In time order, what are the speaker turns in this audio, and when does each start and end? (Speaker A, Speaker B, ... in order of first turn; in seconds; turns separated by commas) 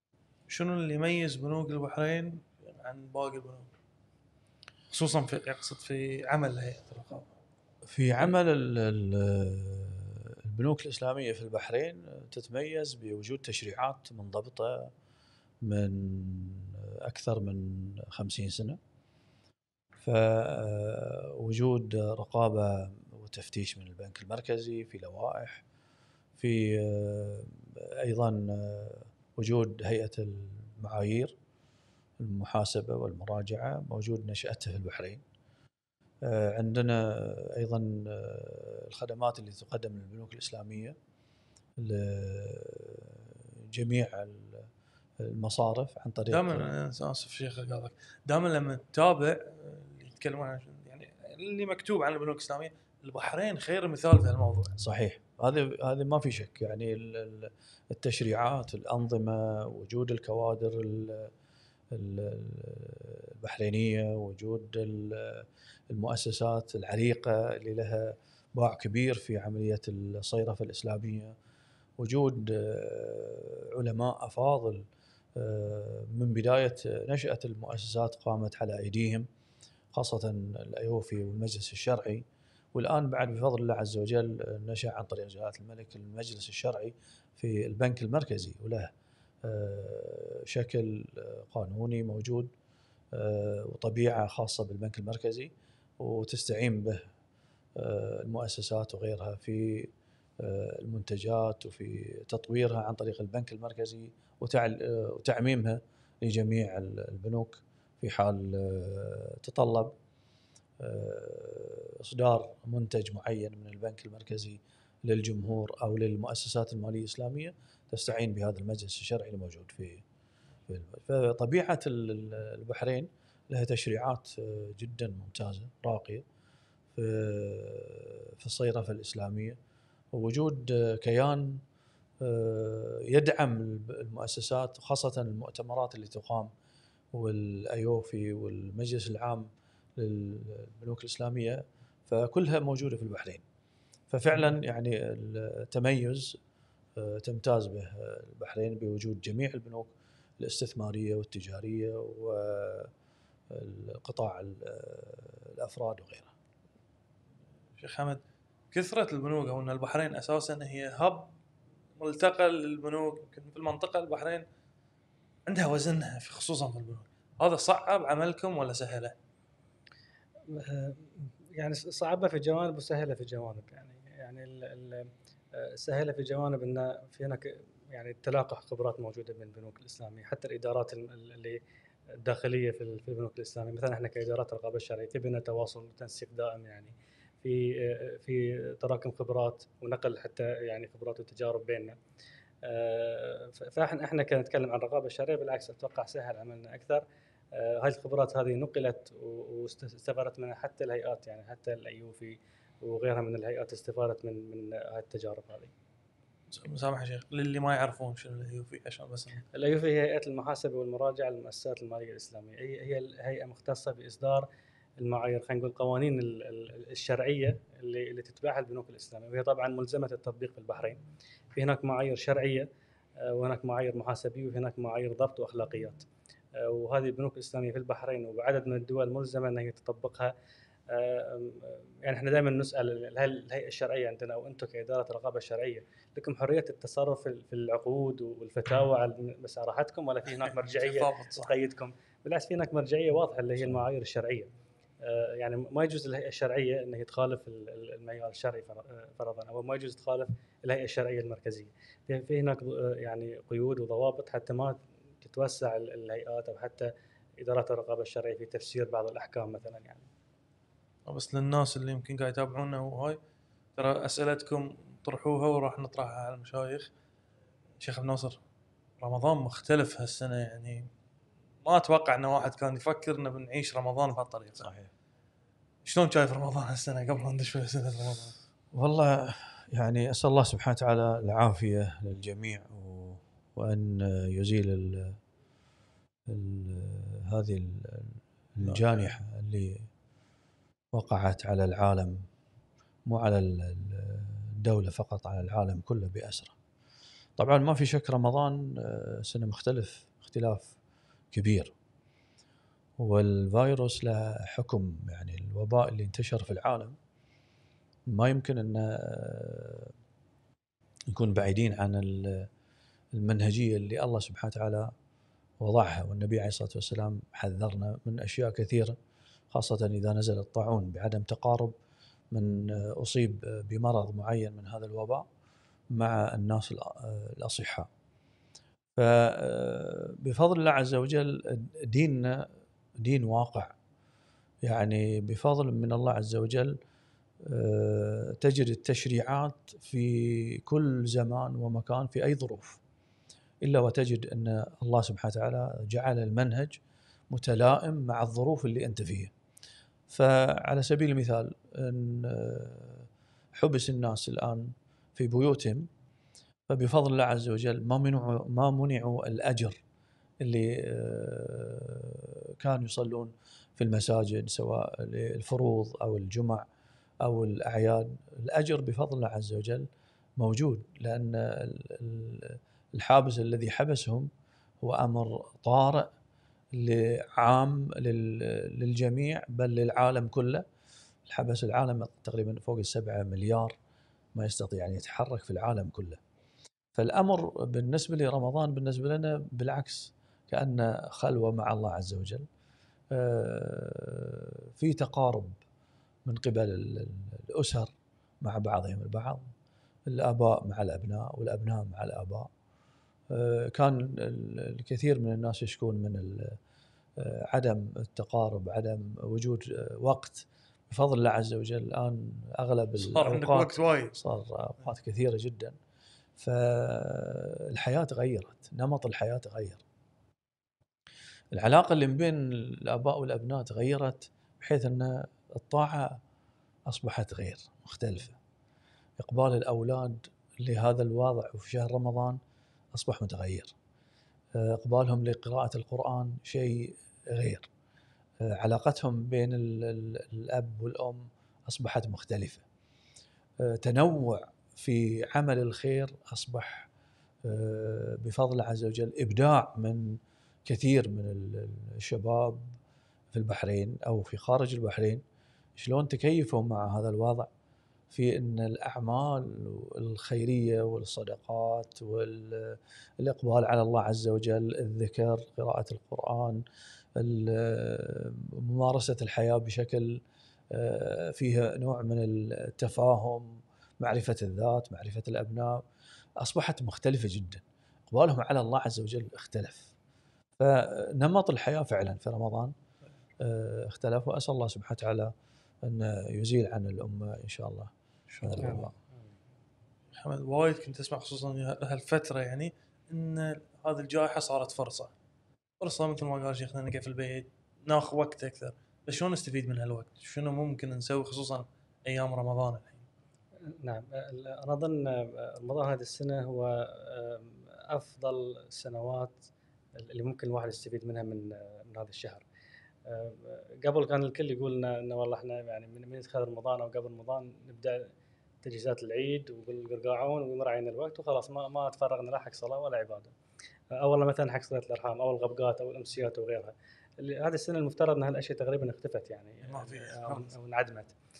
Speaker A: 0.5-3.7, Speaker A: 4.9-7.3, Speaker B: 7.8-14.9, Speaker B: 15.6-18.8, Speaker B: 20.0-25.6, Speaker B: 26.4-31.4, Speaker B: 32.2-35.2, Speaker B: 36.2-41.0, Speaker B: 41.8-44.7, Speaker B: 45.2-46.7, Speaker A: 46.3-54.8, Speaker B: 54.8-61.3, Speaker B: 61.9-71.3, Speaker B: 72.0-79.3, Speaker B: 79.9-88.9, Speaker B: 89.4-92.5, Speaker B: 93.1-97.0, Speaker B: 97.8-109.9, Speaker B: 110.8-120.0, Speaker B: 120.7-126.2, Speaker B: 127.0-129.6, Speaker B: 130.1-131.6, Speaker B: 132.2-136.5, Speaker B: 137.1-143.4, Speaker B: 144.1-146.4, Speaker B: 147.0-152.9, Speaker B: 153.5-156.3, Speaker A: 157.8-158.2, Speaker A: 158.7-161.3, Speaker A: 162.0-164.5, Speaker A: 165.5-169.2, Speaker C: 170.5-181.6, Speaker C: 182.1-192.0, Speaker C: 192.6-205.7, Speaker A: 206.5-209.4, Speaker C: 209.5-214.5, Speaker C: 215.0-221.0, Speaker C: 221.6-222.7, Speaker C: 223.2-230.3, Speaker C: 230.9-244.5, Speaker A: 240.3-241.5, Speaker C: 245.0-260.1, Speaker A: 261.1-263.2, Speaker A: 263.8-266.9, Speaker A: 267.8-268.4, Speaker A: 269.0-270.9, Speaker A: 271.6-274.7, Speaker B: 274.6-274.9, Speaker A: 275.9-278.4, Speaker B: 278.7-285.2, Speaker B: 286.3-289.9, Speaker A: 288.6-289.2, Speaker B: 290.9-292.3, Speaker B: 293.1-296.6, Speaker B: 297.4-300.8, Speaker B: 301.3-301.7, Speaker B: 303.0-307.0, Speaker B: 308.1-309.9, Speaker B: 311.1-312.5, Speaker B: 313.1-314.9, Speaker B: 315.6-319.0, Speaker B: 319.5-321.8, Speaker B: 322.3-325.3, Speaker B: 325.9-327.9, Speaker B: 329.0-332.5, Speaker B: 333.0-333.8, Speaker B: 334.6-336.8, Speaker B: 337.4-342.8, Speaker B: 343.6-346.8, Speaker B: 347.3-349.3, Speaker B: 350.1-355.9, Speaker B: 356.7-359.8, Speaker B: 360.4-366.6, Speaker B: 367.2-376.1, Speaker B: 376.7-380.6, Speaker B: 381.3-383.8, Speaker B: 384.4-386.2, Speaker B: 387.0-392.5, Speaker B: 393.1-395.6, Speaker B: 396.2-399.5, Speaker B: 400.1-402.5, Speaker B: 403.3-406.6, Speaker B: 407.2-415.8, Speaker A: 413.0-414.2, Speaker B: 416.4-419.8, Speaker B: 421.5-426.2, Speaker B: 426.9-428.4, Speaker B: 429.2-432.4, Speaker B: 432.9-433.7, Speaker B: 434.6-437.7, Speaker B: 438.4-442.6, Speaker B: 443.6-446.9, Speaker B: 447.4-452.8, Speaker B: 453.3-455.2, Speaker B: 455.8-457.5, Speaker B: 458.1-466.6, Speaker B: 467.1-475.8, Speaker B: 476.4-479.9, Speaker B: 480.6-482.8, Speaker B: 483.4-488.9, Speaker A: 488.3-488.9, Speaker C: 488.6-488.9, Speaker A: 490.1-495.1, Speaker A: 495.8-503.1, Speaker C: 503.7-512.5, Speaker C: 513.1-518.1, Speaker C: 518.6-523.3, Speaker C: 523.9-531.1, Speaker A: 529.6-530.5